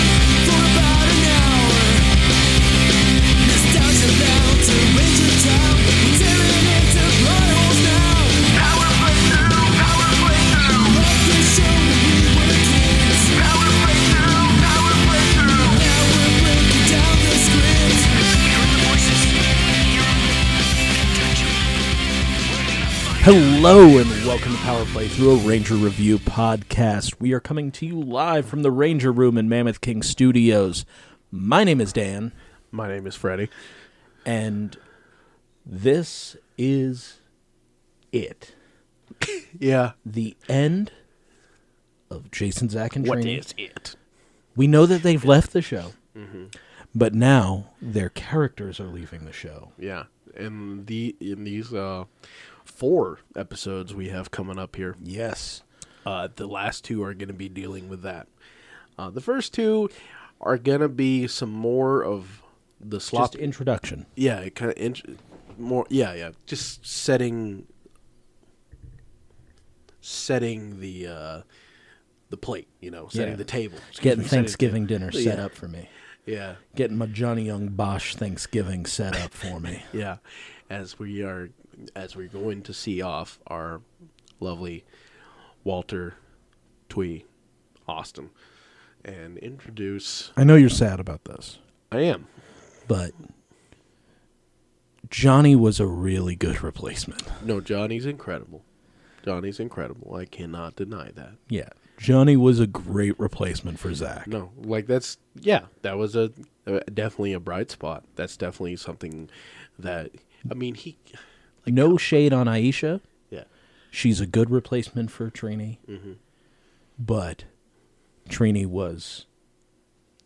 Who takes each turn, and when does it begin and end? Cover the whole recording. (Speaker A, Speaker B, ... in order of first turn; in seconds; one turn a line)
Speaker A: 0.4-2.1
Speaker A: 3.4-19.4
Speaker B: 23.2-32.3
Speaker C: 32.7-33.5
Speaker B: 34.2-34.8
Speaker B: 35.6-37.2
Speaker B: 38.1-38.5
Speaker C: 39.2-39.9
Speaker B: 40.0-40.9
Speaker B: 42.1-43.4
Speaker C: 43.0-44.0
Speaker B: 44.5-46.0
Speaker C: 46.1-46.5
Speaker B: 46.9-49.7
Speaker C: 49.8-55.0
Speaker B: 55.0-55.6
Speaker C: 56.0-58.3
Speaker C: 59.0-63.5
Speaker B: 63.1-64.1
Speaker C: 64.2-67.7
Speaker C: 70.0-71.4
Speaker C: 72.3-75.5
Speaker B: 73.1-75.9
Speaker C: 76.2-76.6
Speaker B: 76.7-79.9
Speaker C: 79.9-83.8
Speaker C: 84.4-84.8
Speaker C: 85.6-86.2
Speaker C: 86.9-87.3
Speaker C: 87.9-88.3
Speaker C: 89.0-90.3
Speaker B: 90.3-91.6
Speaker C: 91.9-92.3
Speaker B: 92.9-93.2
Speaker B: 95.1-97.4
Speaker C: 97.4-98.6
Speaker C: 99.2-101.4
Speaker B: 101.5-104.3
Speaker C: 104.2-112.0
Speaker B: 111.7-113.0
Speaker B: 113.9-115.8
Speaker C: 115.9-116.2
Speaker B: 117.0-117.5
Speaker B: 118.3-119.2